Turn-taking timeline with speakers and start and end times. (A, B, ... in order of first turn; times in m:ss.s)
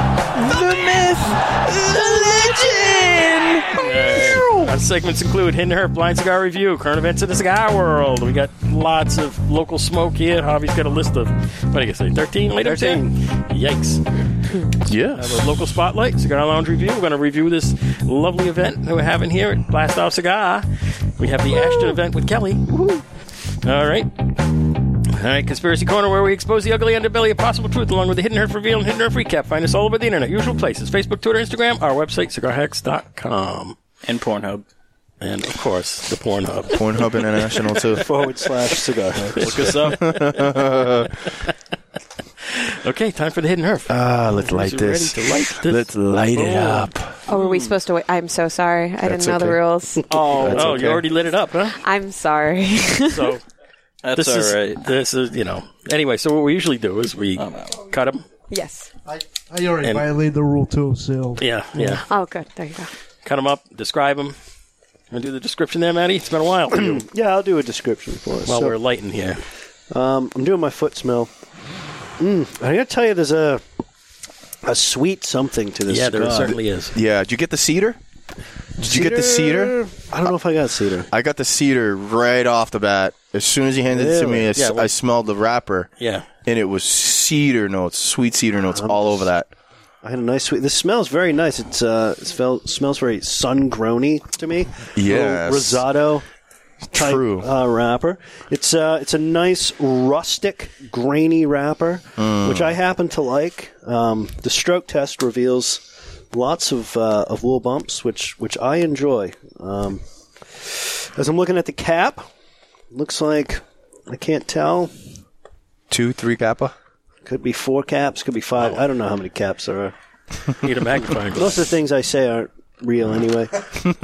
0:00.3-0:04.7 A
0:03.7-0:14.0 B
0:12.6-0:13.1 C
0:14.8-0:15.5 A
0:15.1-0:20.7 B
0:21.2-0:22.8 B
0:23.6-0:24.1 B
0:25.1-0:33.8 B
0:34.0-0:34.6 D
0:35.2-0:37.9 B
0:36.7-0:38.1 A
0:37.9-0:39.5 C
0:39.4-0:40.7 B
0:39.4-0:40.0 D
0:39.4-0:41.1 A
0:41.2-0:41.5 B
0:42.4-0:46.9 B
0:43.9-0:47.2 A
0:47.3-0:50.1 E
0:47.4-0:47.7 D
0:49.0-0:49.6 A
0:50.1-0:51.8 B
0:50.4-0:51.0 A
0:50.4-0:50.8 C
0:51.7-0:53.3 E
0:53.1-0:53.4 B
0:54.0-0:54.9 D
0:54.1-0:58.2 B
0:57.4-0:57.8 D
0:58.5-0:58.9 E
0:59.1-1:02.0 F
0:59.8-1:00.1 B
1:01.4-1:02.0 B
1:02.1-1:02.9 E
1:03.2-1:04.3 B
1:05.1-1:07.0 B
1:06.7-1:08.8 C
1:08.4-1:09.4 B
1:09.9-1:11.3 C
1:12.2-1:13.6 C
1:14.6-1:16.6 C
1:15.9-1:16.9 B
1:16.4-1:18.0 A
1:18.8-1:19.8 A
1:18.8-1:21.1 C
1:21.1-1:25.9 A
1:23.9-1:24.5 C
1:24.5-1:24.9 B
1:26.0-1:26.2 B
1:26.4-1:29.5 A
1:28.7-1:29.3 C
1:30.0-1:36.2 C
1:34.9-1:35.8 A
1:36.9-1:37.5 A
1:36.9-1:50.0 C
1:42.2-1:42.8 A
1:50.5-1:52.2 C
1:52.9-1:54.9 C
1:55.9-1:56.7 A
1:57.2-1:59.9 C
2:00.6-2:01.7 B
2:01.3-2:03.7 C